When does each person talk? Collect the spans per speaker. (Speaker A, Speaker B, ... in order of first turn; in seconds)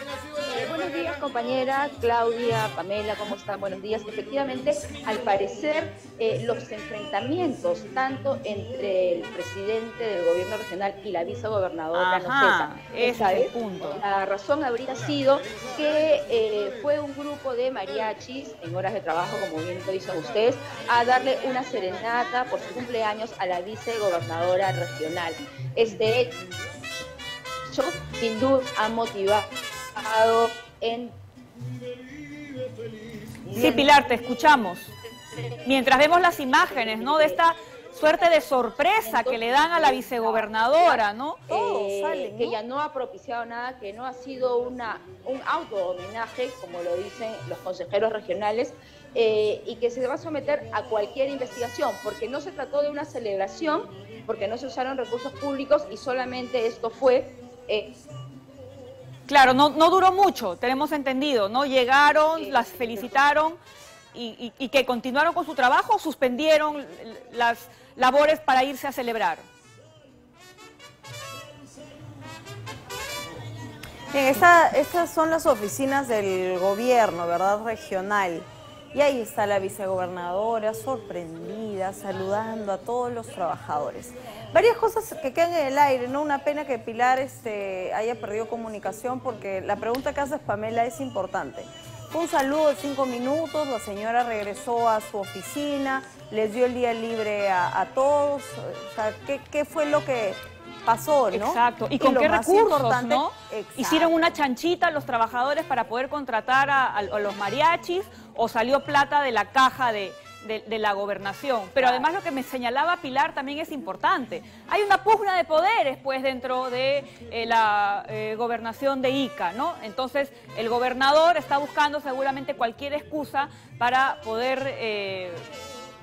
Speaker A: 0.5-26.3, 27.7-31.2, 33.6-33.9, 36.6-37.4, 39.0-57.9, 62.4-63.3, 111.8-112.0
Speaker B: 11.9-14.0, 33.6-34.9, 35.6-41.5, 59.3-63.6, 64.1-69.5, 101.3-125.5
Speaker C: 41.5-42.6, 74.1-104.2